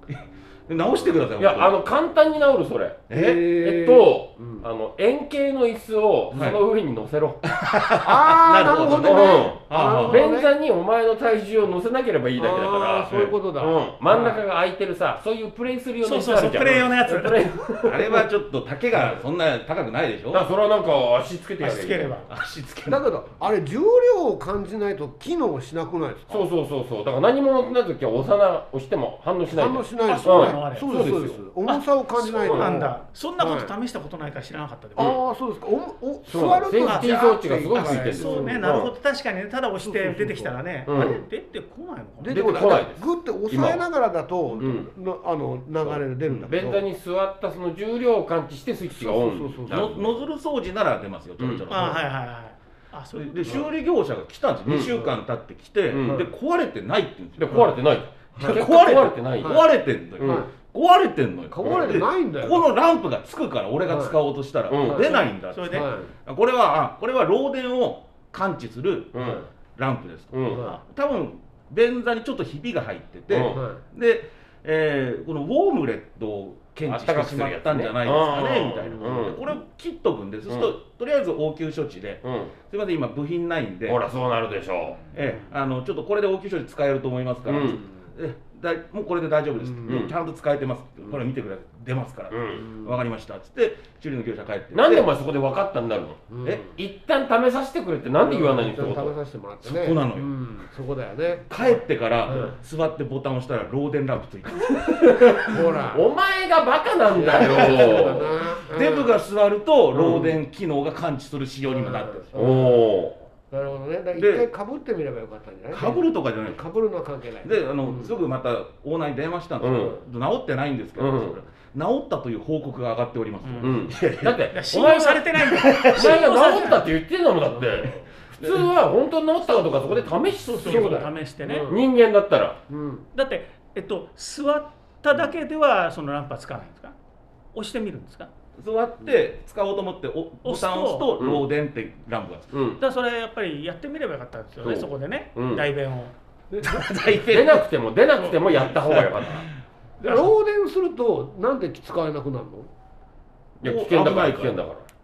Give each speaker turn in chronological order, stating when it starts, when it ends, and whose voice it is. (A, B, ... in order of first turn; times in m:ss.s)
0:00.1-0:01.8 A
0:01.4-0:07.4 B
0:03.1-0:03.5 A
0:03.1-0:04.7 C
0:06.3-0:06.6 A
0:07.5-0:10.3 A
0:08.0-0:10.5 C
0:08.9-0:18.2 B
0:12.4-0:14.4 C
0:13.1-0:13.3 A
0:16.0-0:17.4 D
0:17.8-0:20.4 A
0:20.3-0:22.1 B
0:21.6-0:22.3 D
0:22.3-0:23.3 A
0:22.9-0:26.4 C
0:26.3-0:31.4 B
0:29.5-0:33.7 C
0:30.0-0:31.0 D
0:31.6-0:35.2 D
0:32.4-0:32.7 B
0:35.0-0:38.7 C
0:36.3-0:38.9 B
0:36.8-0:42.7 D
0:39.8-0:41.2 C
0:40.9-0:41.2 B
0:42.2-0:46.8 C
0:42.3-0:43.8 B
0:44.6-0:44.9 B
0:45.8-0:50.2 B
0:49.0-0:50.2 C
0:49.7-0:52.0 A
0:51.4-0:51.7 B
0:51.7-0:53.7 D
0:53.2-0:57.8 A
0:54.7-0:55.0 B
0:55.9-0:56.3 B
0:56.0-0:56.3 C
0:57.4-0:59.6 B
0:58.4-0:58.6 C
0:58.4-1:24.0 A
1:00.2-1:00.5 B
1:00.2-1:00.5 C
1:01.5-1:02.7 C
1:01.6-1:02.0 B
1:03.9-1:04.2 C
1:04.7-1:05.1 B
1:04.9-1:06.1 C
1:04.9-1:05.9 D
1:09.1-1:09.4 B
1:09.2-1:09.5 C
1:10.3-1:10.7 B
1:10.5-1:10.8 C
1:13.3-1:13.6 B
1:13.4-1:13.8 C
1:16.9-1:19.4 B
1:22.2-1:22.5 B
1:23.9-1:25.0 B
1:25.1-1:35.1 A
1:27.5-1:27.8 B
1:29.6-1:30.1 C
1:29.9-1:30.1 B
1:32.3-1:32.7 B
1:34.7-1:39.2 B
1:36.3-1:36.7 C
1:38.2-1:42.6 C
1:39.6-1:40.3 A
1:41.5-1:45.3 A
1:44.9-1:48.4 B
1:45.5-1:46.1 C
1:47.1-1:49.2 C
1:47.4-1:48.0 A
1:48.7-1:52.7 A
1:51.7-1:52.8 C
1:52.4-1:53.2 B
1:53.5-1:58.2 C
1:54.2-1:54.5 A
1:55.7-1:56.6 A
1:57.4-2:04.4 A
1:59.6-2:00.0 B
2:01.0-2:01.4 B
2:03.4-2:03.8 D
2:03.6-2:05.3 B
2:04.5-2:06.8 D
2:05.4-2:06.2 A
2:05.9-2:12.6 B
2:07.5-2:08.1 C
2:08.4-2:08.7 A
2:10.4-2:11.7 D
2:11.4-2:11.8 C
2:12.7-2:13.0 C
2:13.1-2:17.0 D
2:17.5-2:18.3 D
2:18.6-2:22.5 A
2:20.4-2:21.1 D
2:21.2-2:21.4 B
2:22.5-2:22.8 B
2:22.8-2:26.1 D
2:24.6-2:25.6 B
2:26.6-2:27.7 A
2:27.3-2:29.5 B
2:28.9-2:29.3 A
2:30.0-2:32.7 C
2:33.6-2:34.6 A
2:33.6-2:34.9 B